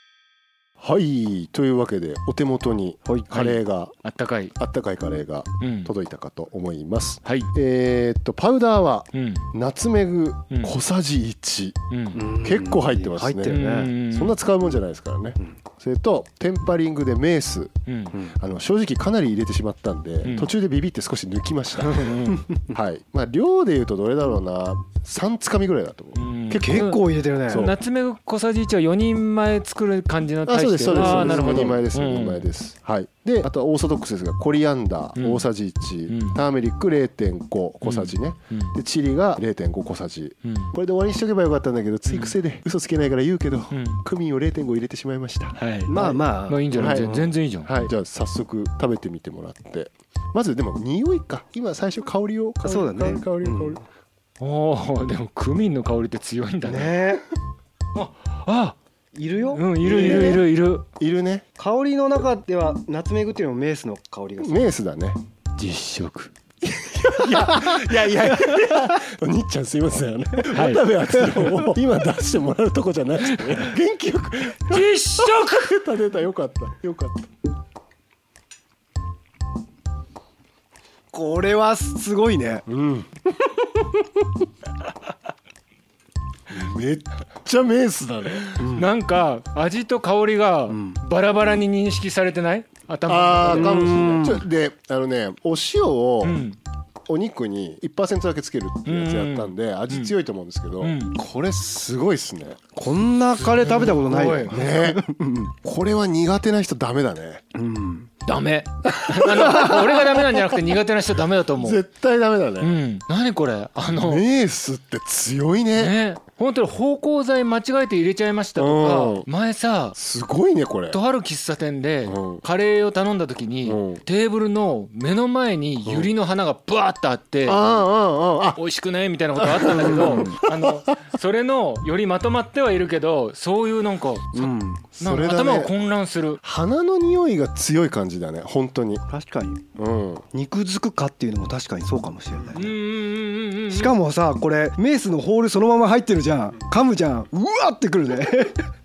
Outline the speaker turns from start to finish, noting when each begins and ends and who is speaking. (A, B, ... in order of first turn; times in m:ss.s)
0:00.8-0:03.9 A
0:03.0-0:03.3 B
0:03.3-0:04.5 C
0:04.6-0:11.8 A
0:05.6-0:05.9 C
0:09.1-0:09.5 C
0:11.9-0:12.3 C
0:12.1-0:13.9 B
0:12.3-0:17.7 A
0:13.4-0:14.4 C
0:17.9-0:18.2 C
0:18.3-0:26.9 A
0:20.2-0:20.5 C
0:21.8-0:22.4 C
0:26.2-0:32.5 C
0:26.5-0:27.7 B
0:27.5-0:27.8 A
0:30.4-0:46.1 A
0:30.9-0:31.8 B
0:35.2-0:35.4 C
0:36.1-0:36.4 C
0:37.8-0:38.7 C
0:40.4-0:40.7 C
0:42.1-0:42.3 C
0:43.7-0:44.0 C
0:45.6-0:47.9 C
0:45.8-0:47.3 B
0:46.7-0:53.8 A
0:52.6-0:53.8 B
0:54.4-0:57.0 C
0:56.6-0:57.2 B
0:57.9-0:58.8 C
0:59.1-1:00.4 B
0:59.5-1:00.8 C
0:59.8-1:01.4 A
1:01.6-1:04.6 B
1:04.4-1:05.2 A
1:05.6-1:06.3 C
1:06.6-1:17.3 A
1:10.5-1:10.8 C
1:14.6-1:15.8 C
1:21.1-1:22.6 B
1:22.7-1:23.8 A
1:26.5-1:28.8 A
1:28.6-1:34.0 C
1:30.7-1:31.0 B
1:33.1-1:36.4 A
1:33.4-1:34.4 B
1:36.2-1:36.6 C
1:37.1-1:42.7 A
1:38.8-1:40.1 C
1:40.8-1:41.1 C
1:42.7-1:45.5 B
1:43.3-1:44.6 C
1:44.5-1:47.4 A
1:47.5-1:48.1 B
1:48.2-1:51.8 C
1:48.9-1:50.0 A
1:51.6-1:52.8 A
1:52.6-1:54.2 C
1:54.0-1:56.0 A
1:55.8-2:00.0 C
1:58.6-1:59.3 A
1:59.9-2:01.0 A
2:00.9-2:07.6 C
2:02.0-2:02.4 A
2:03.6-2:04.0 A
2:05.8-2:06.1 A
2:07.4-2:08.6 A
2:08.6-2:16.4 C
2:09.4-2:10.7 A
2:09.9-2:10.4 B
2:14.3-2:14.8 B
2:14.9-2:15.7 A
2:16.4-2:19.0 A
2:19.1-2:19.6 B
2:19.8-2:20.2 A
2:20.3-2:22.7 B
2:22.5-2:24.0 C
2:23.7-2:28.7 B